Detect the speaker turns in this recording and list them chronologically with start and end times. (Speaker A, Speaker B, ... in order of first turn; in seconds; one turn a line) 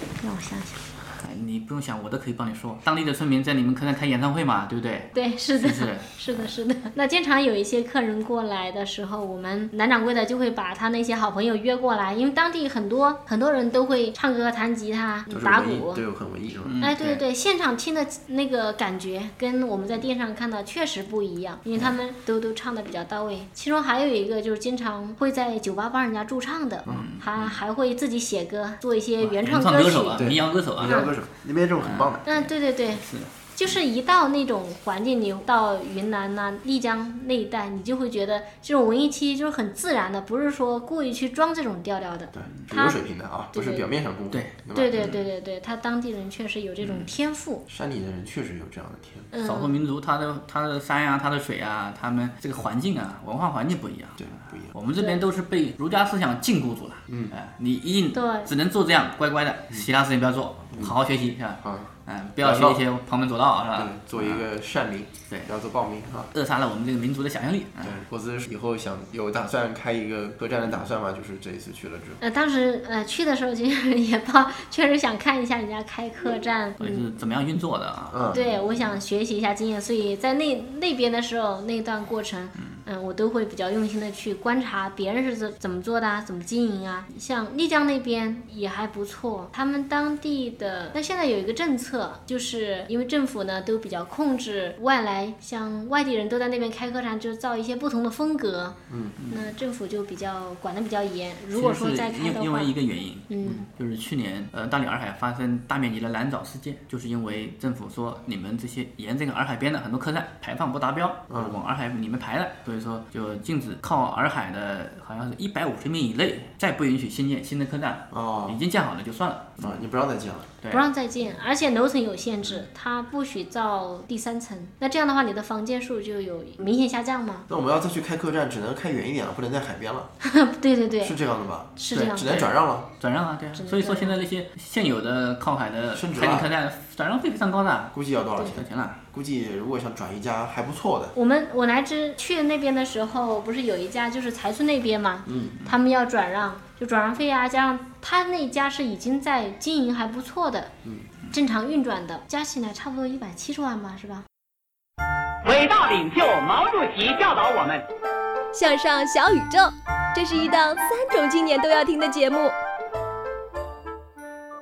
Speaker A: 0.2-0.8
Speaker B: 1.2-6.1
Speaker A: 5.1-16.0
Speaker C: 15.3-16.8
Speaker B: 16.7-17.2
Speaker A: 16.8-30.2
Speaker B: 26.9-27.6
Speaker B: 29.2-31.1
Speaker C: 30.1-32.3
Speaker A: 30.9-31.1
Speaker B: 31.8-33.3
Speaker A: 32.3-43.0
Speaker C: 42.3-45.1
Speaker A: 43.5-43.9
Speaker B: 44.3-45.2
Speaker A: 44.7-47.6
Speaker C: 47.7-49.3
Speaker A: 49.3-49.8
Speaker B: 49.4-64.5
Speaker C: 54.2-54.7
Speaker C: 57.1-57.4
Speaker A: 58.1-58.5
Speaker C: 60.7-61.0
Speaker C: 61.6-62.8
Speaker C: 63.7-66.3
Speaker B: 66.3-68.0
Speaker C: 67.8-72.2
Speaker A: 72.2-77.1
Speaker B: 76.8-78.6
Speaker C: 78.1-78.5
Speaker A: 78.3-98.8
Speaker C: 98.9-99.2
Speaker B: 99.2-99.5
Speaker A: 99.3-102.7
Speaker B: 101.5-119.8
Speaker A: 103.3-103.7
Speaker C: 111.3-111.6
Speaker C: 118.1-118.6
Speaker C: 119.6-120.5
Speaker B: 120.6-120.9
Speaker A: 120.7-127.5
Speaker C: 127.5-130.1
Speaker A: 130.2-131.2
Speaker C: 131.0-132.9
Speaker A: 131.8-132.3
Speaker B: 131.9-139.0
Speaker A: 133.6-134.2
Speaker C: 135.9-136.5
Speaker C: 137.9-141.2
Speaker A: 141.2-150.7
Speaker C: 145.3-145.6
Speaker A: 151.3-154.2
Speaker D: 155.4-157.8
Speaker E: 158.5-162.5